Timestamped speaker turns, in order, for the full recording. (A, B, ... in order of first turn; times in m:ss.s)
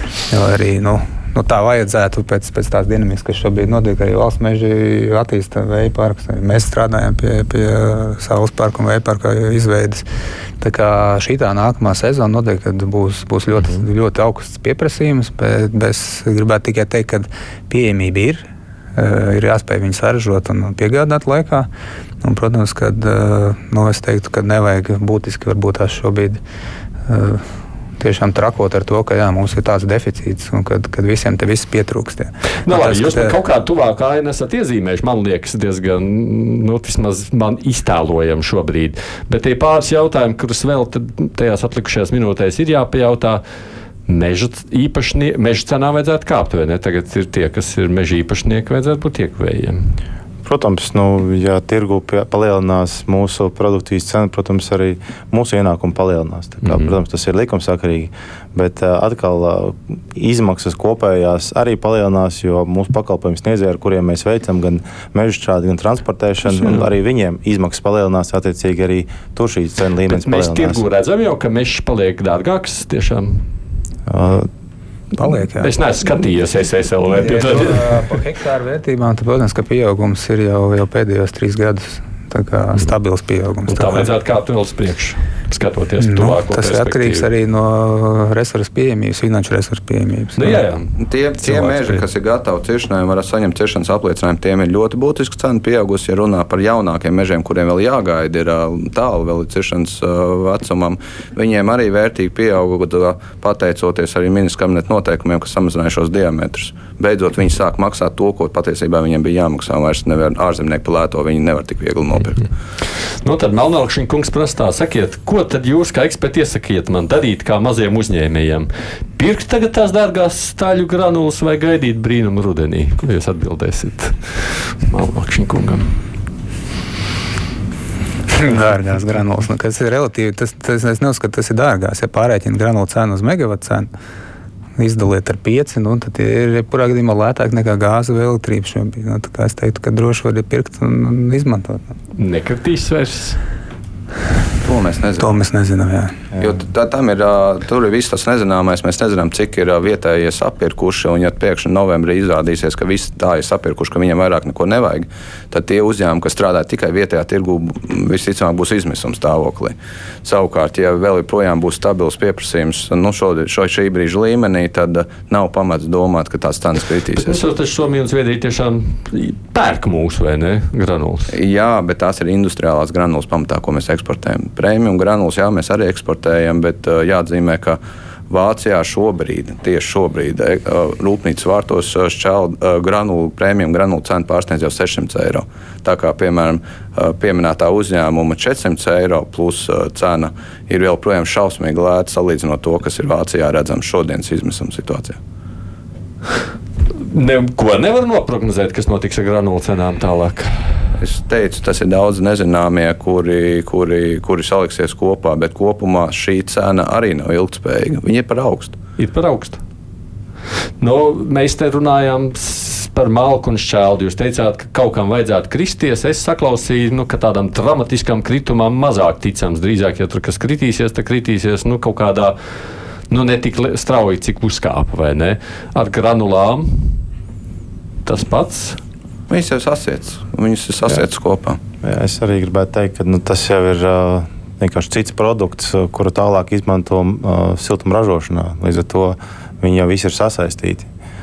0:00.3-0:10.0 A
0:10.6-0:18.4 A
0:19.0-0:21.7 A
0:22.2-0:26.4 A
0:27.1-0:27.4 A
0:28.0-0:33.4 A
0:32.6-0:43.4 B
0:44.1-0:49.9 B
0:50.4-1:10.8 C
0:56.6-0:56.9 B
1:06.5-1:06.9 B
1:10.1-1:13.4 B
1:14.1-1:14.5 C
1:15.2-1:15.7 A
1:15.5-1:18.0 B
1:17.2-1:24.1 A
1:23.7-1:27.3 B
1:26.0-1:30.6 A
1:30.4-1:32.0 B
1:31.0-1:52.5 D
1:53.2-2:05.9 B
2:08.3-2:13.9 A
2:14.8-2:21.8 A
2:22.1-2:23.4 B
2:24.6-2:25.4 D
2:25.2-2:26.2 A
2:26.4-2:47.4 D
2:47.1-2:51.3 B
2:51.3-3:15.2 D
3:16.9-3:20.6 B
3:21.0-3:28.8 D
3:29.0-3:29.6 B
3:30.8-3:42.4 B
3:43.1-3:47.0 B
3:48.0-3:48.8 B
3:49.3-3:51.6 D
3:51.8-4:00.9 C